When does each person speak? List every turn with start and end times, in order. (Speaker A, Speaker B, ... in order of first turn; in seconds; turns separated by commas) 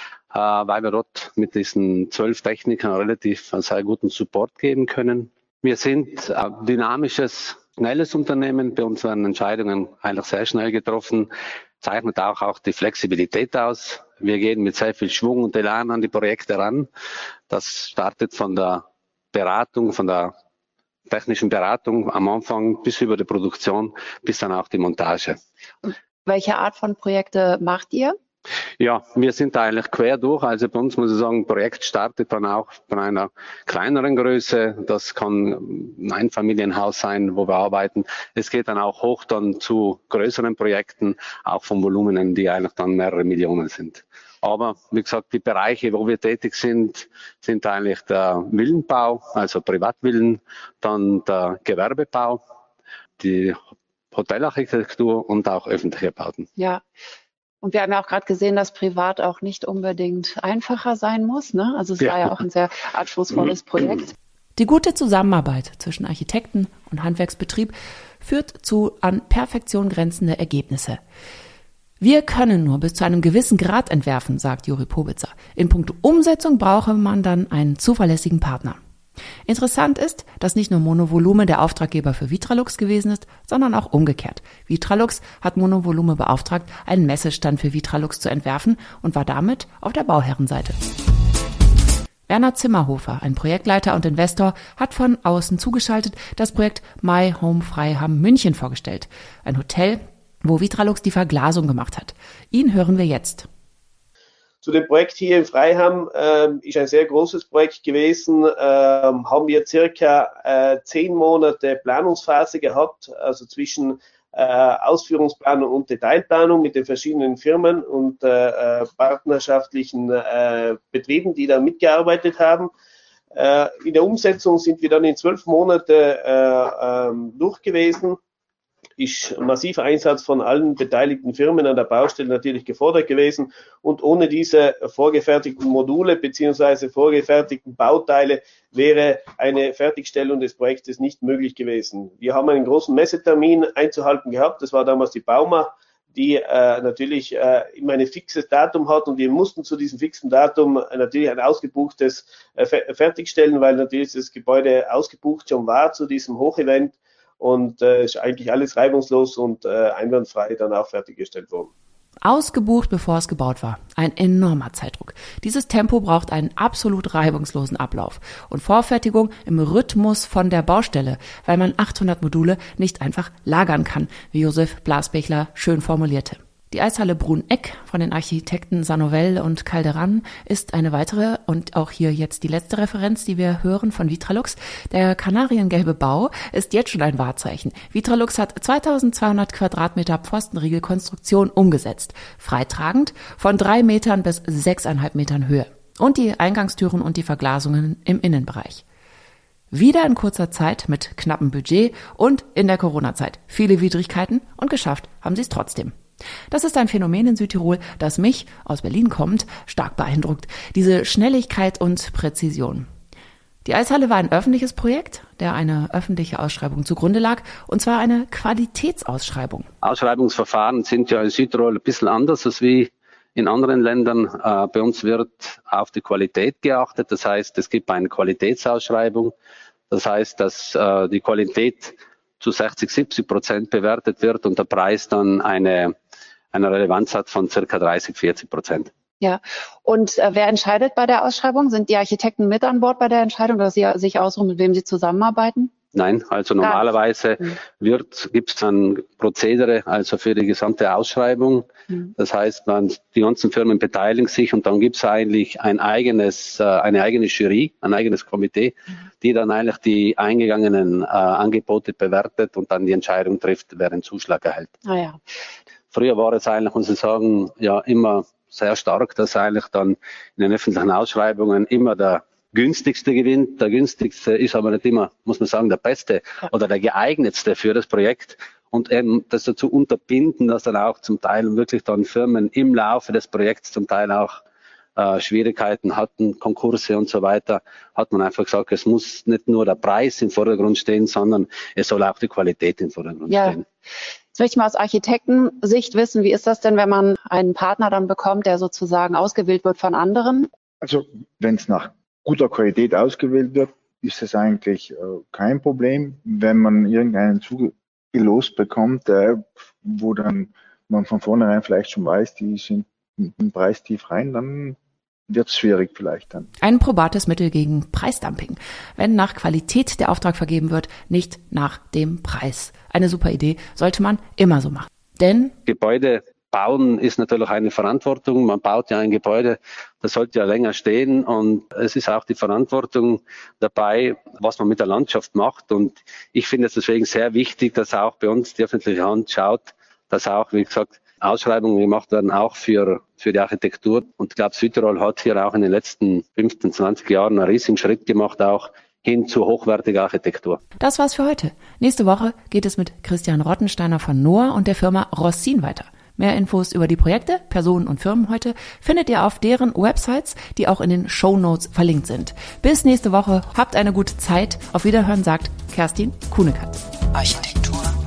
Speaker A: 0.3-11.3, Speaker A: 11.8-16.9, Speaker A: 17.5-20.3, Speaker A: 21.1-25.4, Speaker B: 25.8-28.1, Speaker A: 28.8-52.4, Speaker A: 53.2-53.6, Speaker A: 54.1-56.5, Speaker B: 57.6-64.1, Speaker A: 62.0-62.3, Speaker C: 64.6-71.0, Speaker C: 72.0-78.8, Speaker C: 79.5-90.8, Speaker C: 92.3-103.5, Speaker D: 104.6-122.7, Speaker D: 123.3-128.2, Speaker D: 129.0-161.7, Speaker C: 162.2-198.8, Speaker C: 199.7-205.9, Speaker C: 206.5-212.9, Speaker C: 213.6-219.7, Speaker A: 219.8-229.3, Speaker A: 229.9-235.9, Speaker A: 236.5-238.9, Speaker B: 239.2-245.7, Speaker A: 245.9-264.7, Speaker B: 246.6-246.9, Speaker B: 264.9-265.2, Speaker A: 265.9-284.3, Speaker A: 285.0-293.6, Speaker B: 293.3-293.6, Speaker B: 294.3-300.5, Speaker E: 300.8-314.8, Speaker E: 315.3-316.5, Speaker C: 316.6-325.5, Speaker A: 325.7-350.6, Speaker C: 350.8-367.5